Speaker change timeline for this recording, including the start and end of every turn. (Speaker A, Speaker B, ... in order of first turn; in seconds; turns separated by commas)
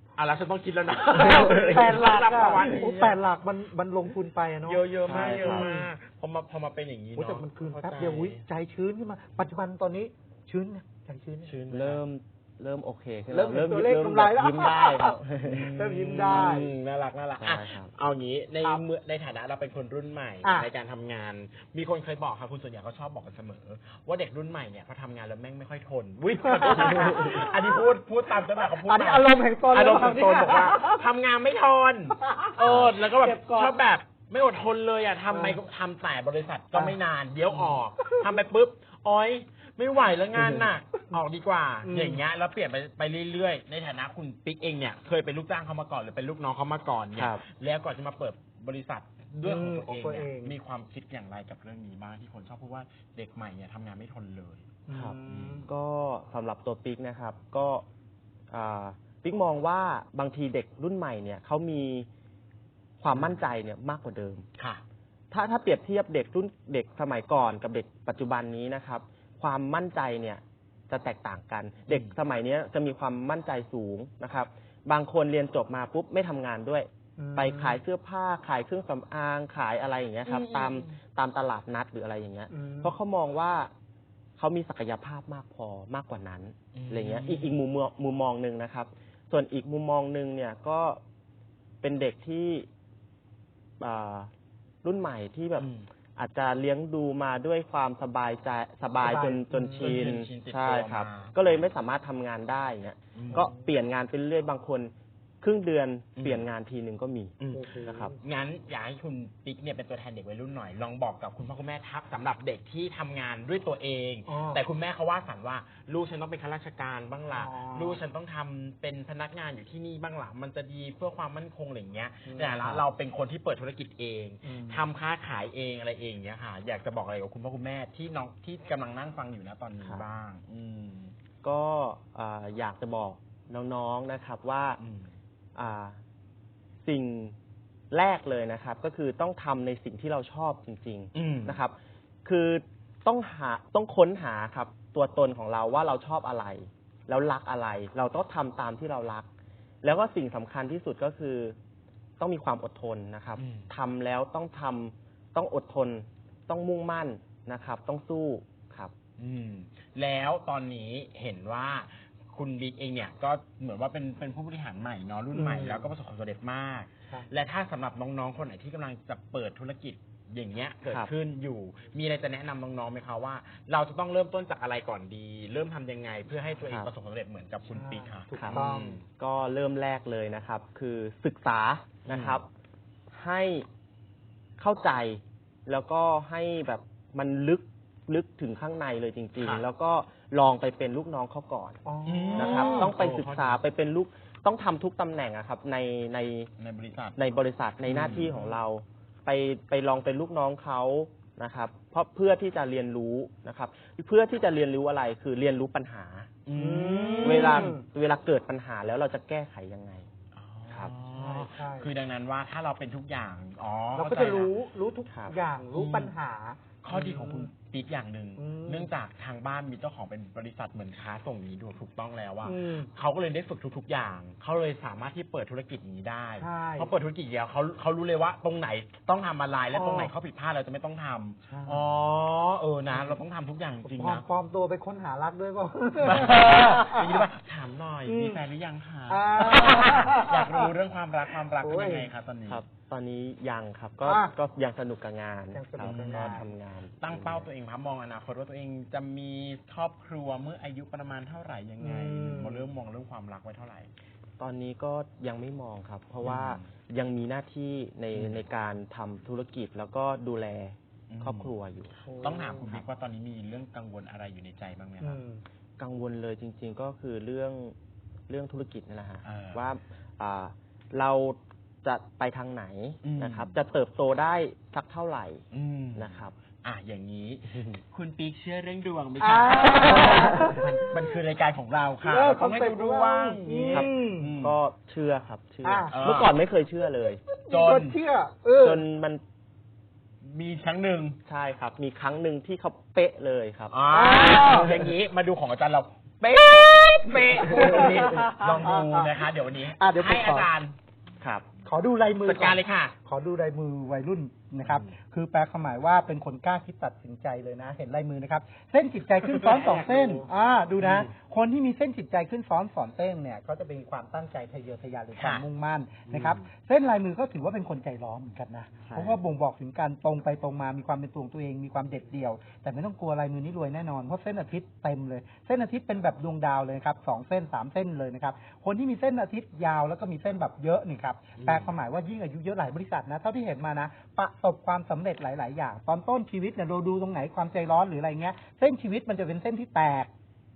Speaker A: 0.2-3.2, Speaker B: 1.2-5.9, Speaker A: 4.7-8.4, Speaker C: 5.1-5.7, Speaker B: 7.2-11.5, Speaker A: 11.4-12.0, Speaker C: 11.7-15.7, Speaker B: 13.3-15.2, Speaker A: 15.4-54.7, Speaker B: 15.7-16.7, Speaker C: 17.4-17.9, Speaker B: 20.4-20.7, Speaker B: 26.4-27.8, Speaker B: 28.5-31.0, Speaker B: 32.2-32.6, Speaker C: 32.6-32.9, Speaker B: 33.1-33.8, Speaker B: 35.3-35.6, Speaker B: 37.5-38.4, Speaker C: 40.4-40.7, Speaker B: 41.8-42.2, Speaker C: 47.1-47.4, Speaker B: 49.4-50.6, Speaker B: 54.9-55.7, Speaker C: 54.9-57.9, Speaker A: 55.3-55.7, Speaker C: 58.5-62.1, Speaker C: 63.0-64.5, Speaker A: 63.1-63.4, Speaker C: 65.3-83.7, Speaker A: 71.9-72.2, Speaker B: 77.2-77.8, Speaker A: 80.3-80.9, Speaker B: 82.5-83.0, Speaker C: 84.4-91.0, Speaker A: 86.7-87.5, Speaker C: 91.8-92.7, Speaker C: 93.8-94.3, Speaker C: 94.8-108.2, Speaker A: 95.6-95.9, Speaker B: 99.0-100.1, Speaker A: 99.8-101.6, Speaker A: 103.2-103.5, Speaker B: 103.3-103.7, Speaker A: 106.2-106.5, Speaker A: 107.4-131.2, Speaker B: 107.5-108.2, Speaker B: 114.3-114.6, Speaker B: 117.3-118.0, Speaker B: 122.3-122.8, Speaker B: 124.4-124.8, Speaker C: 129.8-130.1, Speaker C: 131.4-134.8, Speaker A: 134.8-135.1, Speaker C: 135.6-136.0, Speaker C: 136.8-137.4, Speaker C: 137.9-149.3, Speaker A: 141.1-141.6, Speaker C: 149.8-151.6, Speaker C: 152.2-158.9, Speaker A: 153.4-153.7, Speaker A: 159.2-179.1, Speaker B: 165.3-165.9, Speaker C: 176.7-176.9, Speaker B: 177.7-179.0, Speaker C: 178.4-182.5, Speaker A: 182.1-182.4, Speaker C: 183.1-183.7, Speaker C: 184.6-191.8, Speaker A: 189.4-189.6, Speaker B: 191.8-192.9, Speaker A: 192.1-193.6, Speaker C: 192.3-196.5, Speaker A: 196.6-197.2, Speaker C: 197.2-206.3, Speaker A: 197.9-198.3, Speaker B: 198.3-198.6, Speaker A: 206.4-207.8, Speaker B: 206.5-207.8, Speaker C: 207.2-210.1, Speaker A: 210.3-214.5, Speaker C: 210.7-210.9, Speaker B: 211.1-211.9, Speaker B: 213.9-217.5, Speaker A: 215.7-216.1, Speaker A: 216.8-234.2, Speaker B: 218.4-218.9, Speaker B: 222.4-222.9, Speaker B: 226.4-226.9, Speaker B: 229.7-230.1, Speaker B: 231.5-231.8, Speaker B: 233.8-237.3, Speaker A: 236.0-242.6, Speaker B: 238.1-238.4, Speaker B: 239.1-240.7, Speaker B: 241.6-242.1, Speaker C: 242.5-247.5, Speaker B: 244.1-244.3, Speaker B: 245.5-246.5, Speaker A: 245.8-253.9, Speaker B: 251.8-252.7, Speaker C: 254.4-261.9, Speaker A: 256.2-256.7, Speaker A: 258.1-258.4, Speaker A: 261.1-261.6, Speaker B: 262.1-262.7, Speaker A: 262.2-265.2, Speaker B: 265.0-265.4, Speaker C: 265.8-267.8, Speaker C: 268.3-276.4, Speaker A: 269.2-269.6, Speaker A: 273.0-273.6, Speaker A: 275.5-284.6, Speaker C: 277.5-277.8, Speaker B: 279.2-280.9, Speaker C: 280.0-280.4, Speaker B: 282.1-284.3, Speaker C: 283.7-287.2, Speaker B: 285.6-285.9, Speaker A: 285.9-286.4, Speaker B: 287.3-288.8, Speaker A: 287.5-288.0, Speaker C: 288.6-289.2, Speaker A: 290.2-291.2, Speaker C: 291.3-293.8, Speaker A: 293.7-300.8, Speaker B: 293.9-294.8, Speaker B: 297.2-299.2, Speaker B: 299.7-300.5, Speaker C: 301.2-301.5, Speaker B: 301.6-340.1, Speaker A: 302.2-302.9, Speaker A: 304.6-304.9, Speaker A: 309.2-310.3, Speaker A: 310.8-311.1, Speaker A: 315.1-315.4, Speaker A: 316.1-316.4, Speaker C: 318.9-319.2, Speaker A: 331.4-331.7